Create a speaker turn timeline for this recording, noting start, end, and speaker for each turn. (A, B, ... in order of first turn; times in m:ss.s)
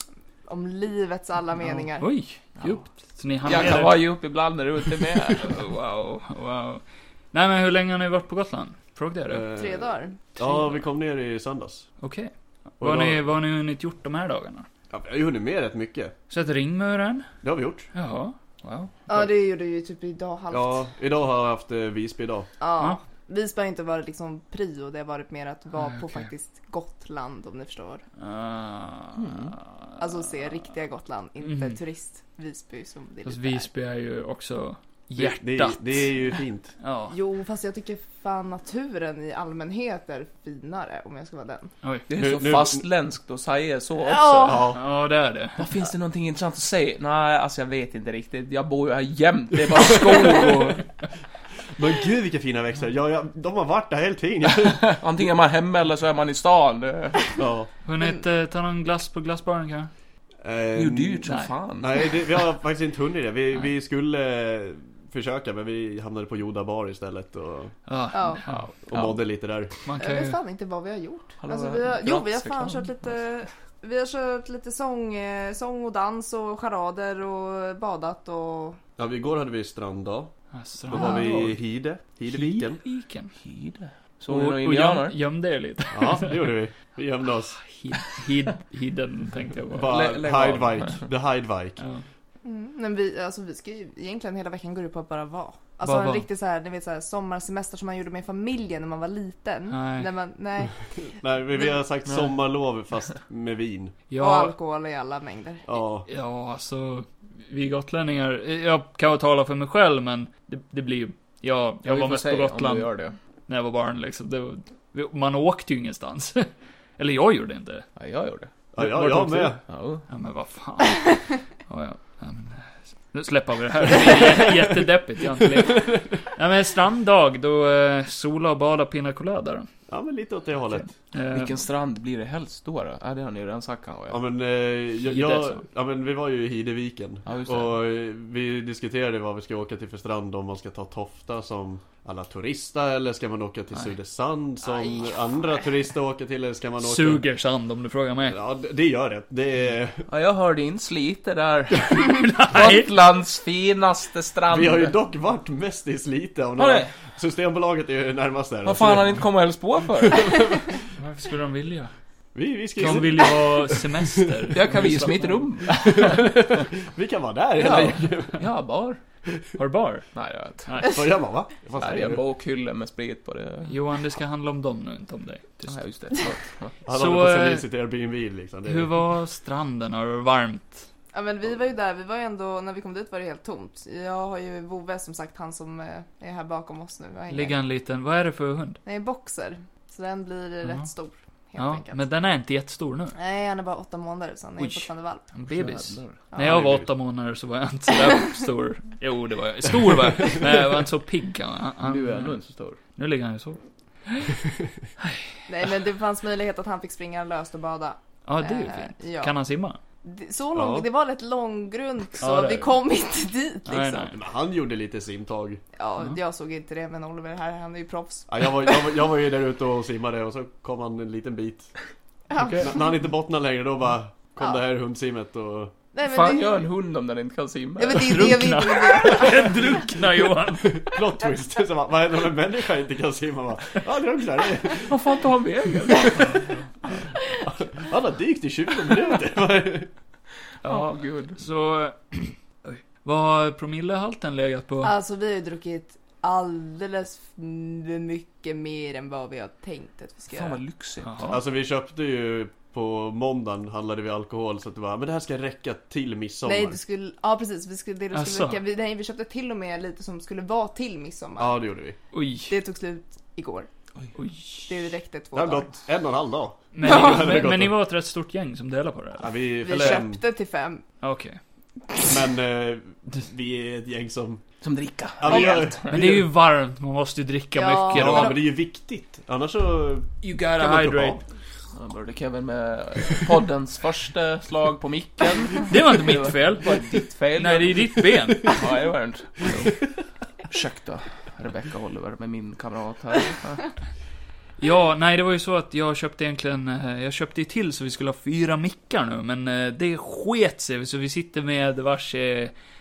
0:00.5-0:02.1 A
0:02.0-0:04.0 B
0:03.5-0:05.6 C
0:05.4-0:09.5 B
0:09.3-0:11.9 D
0:09.6-0:10.2 A
0:10.4-0:10.8 B
0:12.0-0:14.7 B
0:12.8-0:13.2 D
0:14.9-0:16.1 D
0:16.3-0:17.3 B
0:17.4-0:17.9 D
0:17.9-0:19.0 B
0:19.1-0:20.8 A
0:20.5-0:22.5 D
0:22.6-0:28.0 A
0:25.8-0:26.3 B
0:28.2-0:30.0 B
0:29.2-0:29.6 C
0:30.0-0:33.7 A
0:31.4-0:31.8 B
0:33.2-0:37.1 B
0:35.2-0:36.7 D
0:37.1-0:41.7 A
0:42.1-0:44.7 C
0:42.2-0:42.8 D
0:44.0-0:44.7 A
0:44.4-0:44.8 D
0:44.7-0:45.7 B
0:45.6-0:50.8 C
0:50.4-0:50.8 B
0:51.8-0:55.0 D
0:54.8-0:57.4 C
0:57.4-0:57.7 D
0:57.8-0:59.9 B
1:00.4-1:01.3 D
1:00.8-1:02.4 C
1:01.8-1:07.8 D
1:07.9-1:08.7 B
1:08.1-1:08.4 A
1:08.5-1:09.2 C
1:08.8-1:09.7 D
1:09.9-1:10.4 B
1:10.0-1:18.8 A
1:11.4-1:13.1 C
1:19.0-1:20.3 D
1:20.5-1:21.6 B
1:20.9-1:22.8 D
1:22.3-1:23.3 B
1:23.4-1:25.2 C
1:24.3-1:26.4 B
1:25.9-1:27.6 D
1:27.6-1:30.0 B
1:29.7-1:31.8 D
1:29.8-1:31.0 C
1:31.8-1:32.0 B
1:32.4-1:41.7 A
1:35.8-1:36.2 B
1:39.7-1:40.1 B
1:41.0-1:44.0 D
1:42.1-1:42.3 C
1:44.1-1:44.6 B
1:44.2-1:45.6 A
1:45.7-1:46.1 D
1:46.1-1:53.0 B
1:51.8-1:53.2 C
1:53.5-1:57.9 B
1:58.0-2:00.1 C
1:58.8-1:59.6 D
1:58.8-1:59.5 B
2:00.1-2:09.7 B
2:09.9-2:10.9 D
2:10.6-2:11.6 B
2:11.3-2:14.2 C
2:14.1-2:27.2 D
2:15.0-2:15.6 B
2:17.3-2:17.7 C
2:24.6-2:25.6 A
2:26.8-2:28.4 B
2:28.3-2:30.1 D
2:30.1-2:35.0 C
2:31.9-2:32.9 B
2:34.5-2:39.2 D
2:36.6-2:36.9 C
2:38.6-2:40.6 C
2:40.0-2:40.7 D
2:41.0-2:41.9 B
2:42.4-2:44.3 D
2:42.8-2:45.5 B
2:44.5-2:46.6 C
2:45.8-2:48.4 D
2:47.6-2:49.0 C
2:49.6-2:50.1 B
2:50.1-2:50.7 C
2:50.7-2:51.0 B
2:50.9-2:52.2 D
2:51.8-2:53.8 C
2:53.7-2:55.8 B
2:55.7-2:56.8 C
2:56.9-2:58.9 D
2:56.9-2:57.6 B
2:58.6-3:00.9 B
3:01.1-3:07.6 A
3:07.3-3:08.8 B
3:08.8-3:12.0 A
3:11.6-3:13.2 B
3:13.2-3:15.2 A
3:14.6-3:22.4 B
3:15.5-3:16.2 C
3:16.4-3:16.9 D
3:21.8-3:22.8 C
3:23.0-3:24.3 B
3:25.0-3:25.5 B
3:25.5-3:29.3 A
3:28.2-3:29.8 B
3:30.0-3:34.1 A
3:30.6-3:30.9 D
3:32.2-3:32.8 B
3:33.7-3:34.2 B
3:34.1-3:35.6 D
3:35.8-3:39.0 A
3:38.3-3:41.7 D
3:42.3-3:42.9 A
3:42.4-3:42.8 B
3:42.6-3:45.8 D
3:45.9-3:46.6 A
3:46.0-3:48.3 C
3:47.8-3:49.8 A
3:47.9-3:50.8 B
3:50.7-3:54.9 D
3:54.9-3:56.5 C
3:56.2-3:56.9 B
3:57.5-3:59.9 D
4:00.6-4:01.4 C
4:00.6-4:04.9 B
4:04.8-4:10.6 A
4:10.3-4:11.4 C
4:11.0-4:11.4 B
4:11.3-4:16.8 D
4:16.4-4:21.6 A
4:18.1-4:18.6 B
4:21.4-4:22.0 D
4:22.1-4:22.5 B
4:22.5-4:23.7 A
4:24.2-4:24.7 B
4:24.7-4:25.7 A
4:25.3-4:27.8 D
4:26.7-4:30.0 B
4:29.2-4:30.2 D
4:29.6-4:30.8 A
4:31.0-4:31.4 B
4:32.0-4:34.4 D
4:34.6-4:36.0 C
4:35.2-4:36.3 D
4:35.3-4:35.6 A
4:35.9-4:38.4 B
4:37.6-4:38.4 A
4:37.9-4:41.2 D
4:40.2-4:41.2 B
4:41.8-4:49.5 C
4:45.7-4:46.8 B
4:47.4-4:48.6 B
4:49.4-4:49.7 B
4:50.5-4:53.7 C
4:54.6-5:02.5 B